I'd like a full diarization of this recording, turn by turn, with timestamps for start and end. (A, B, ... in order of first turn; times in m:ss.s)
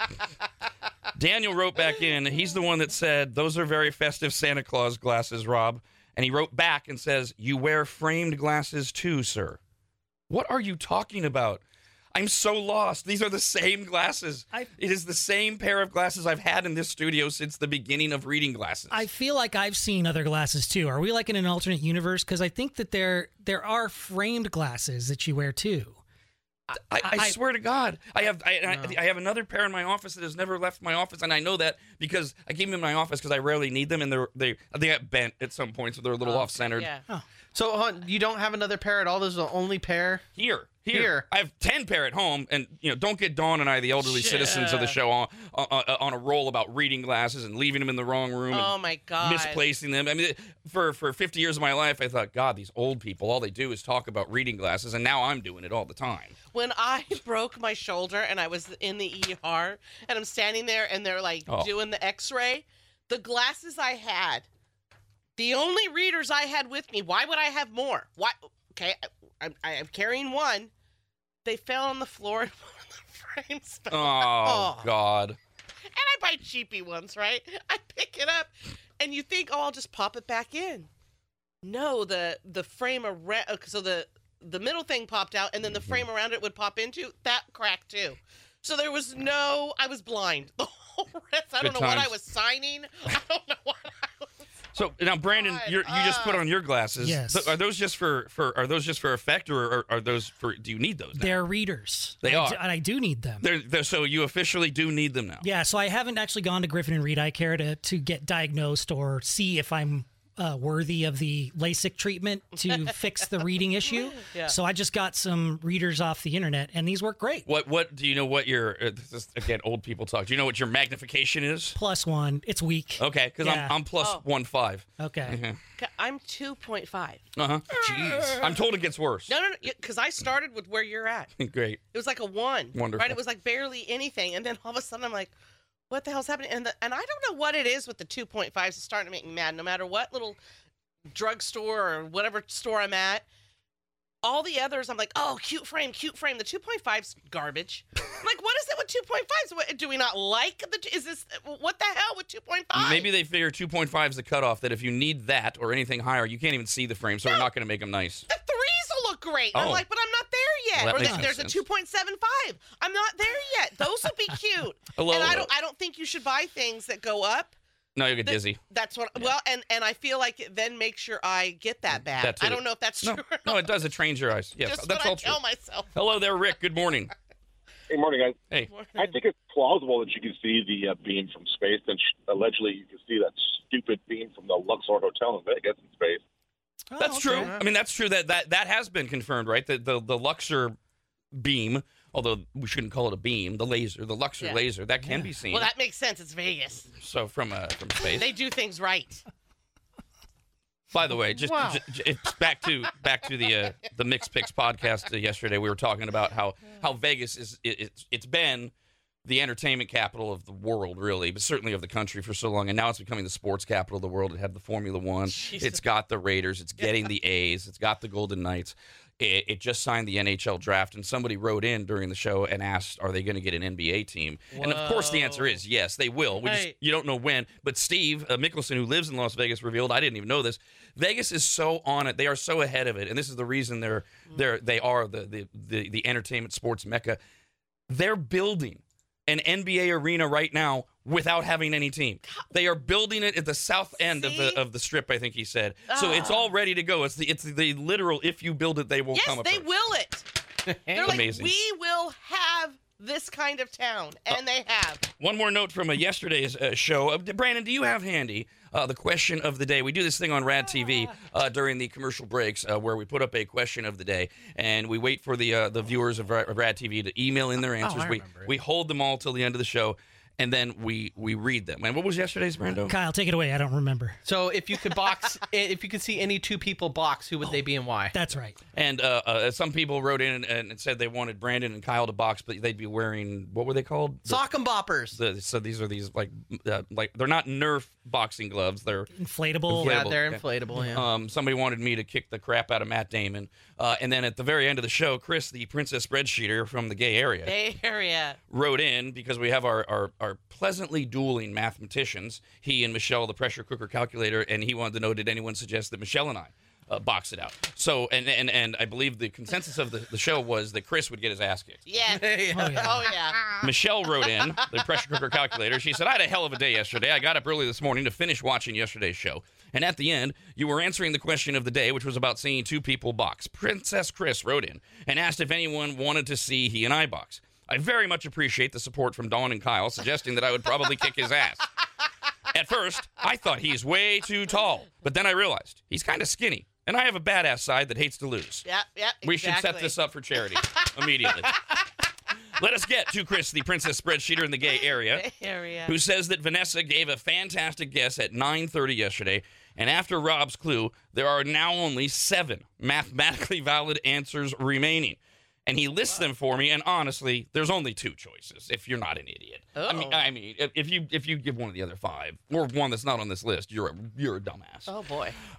0:01.1-0:09.6 A
0:10.3-0:11.6 A
0:12.1-0:19.1 A
0:18.9-0:26.0 B
0:26.9-0:36.9 A
0:27.0-0:27.4 B
0:28.6-0:29.0 C
0:36.2-0:37.0 D
0:37.5-0:40.2 C
0:40.4-0:56.4 A
0:40.9-0:41.2 C
0:44.0-0:45.0 D
0:48.5-0:49.6 D
0:56.5-1:04.5 D
1:05.4-1:10.7 D
1:11.4-1:14.9 D
1:13.9-1:15.4 A
1:15.9-1:20.9 D
1:21.6-1:34.3 D
1:31.6-1:32.1 A
1:34.7-1:41.5 A
1:35.3-1:36.4 D
1:37.0-1:37.6 B
1:41.1-1:43.5 B
1:42.2-1:42.6 A
1:43.4-1:45.4 A
1:45.4-1:57.5 B
1:54.2-1:54.6 D
1:57.5-2:01.8 A
2:01.7-2:03.8 B
2:03.0-2:05.6 A
2:04.0-2:04.2 D
2:05.0-2:05.4 B
2:05.8-2:07.2 D
2:07.4-2:09.3 A
2:07.8-2:08.4 C
2:07.8-2:08.4 D
2:09.3-2:11.3 D
2:11.4-2:11.8 A
2:11.9-2:15.3 D
2:12.7-2:13.2 A
2:15.9-2:20.4 D
2:21.1-2:23.2 D
2:24.2-2:33.1 D
2:32.7-2:38.3 A
2:38.3-2:47.5 D
2:39.5-2:39.8 A
2:40.7-2:41.6 A
2:45.0-2:45.5 A
2:48.0-2:48.6 A
2:48.2-2:53.9 D
2:52.1-2:55.4 A
2:54.6-2:55.9 D
2:55.9-2:57.1 A
2:57.9-2:58.4 E
2:58.7-2:59.1 D
2:59.0-3:06.2 E
3:06.9-3:07.5 B
3:07.0-3:10.8 A
3:07.2-3:07.6 C
3:11.3-3:15.7 A
3:14.4-3:14.6 D
3:15.0-3:15.3 B
3:15.4-3:16.9 D
3:17.0-3:18.3 A
3:18.0-3:19.2 D
3:20.9-3:28.7 A
3:21.4-3:21.8 C
3:29.2-3:57.2 A
3:35.2-3:35.8 D
3:44.5-3:45.6 D
3:46.4-3:46.7 D
3:57.9-4:09.7 A
4:04.0-4:04.6 D
4:05.9-4:06.5 D
4:09.1-4:10.3 D
4:10.7-4:11.2 C
4:10.9-4:15.0 D
4:10.9-4:11.5 A
4:15.2-4:33.0 A
4:27.8-4:28.5 C
4:32.7-4:34.2 B
4:34.2-4:38.1 C
4:38.1-4:38.6 B
4:38.7-4:44.4 A
4:44.2-4:45.2 C
4:45.1-4:49.1 A
4:49.1-4:50.0 B
4:49.7-4:57.5 A
4:49.7-4:51.1 C
4:50.7-4:51.0 B
4:57.4-4:58.4 D
4:58.5-5:11.8 A
5:11.8-5:13.5 D
5:12.1-5:13.1 C
5:12.5-5:13.1 B
5:13.6-5:31.7 A
5:32.5-5:38.6 A
5:38.6-5:40.0 D
5:39.2-5:41.5 A
5:40.5-5:41.5 D
5:42.6-5:45.2 A
5:45.0-5:46.0 D
5:45.8-6:04.9 A
5:59.7-6:00.3 D
6:04.9-6:05.4 D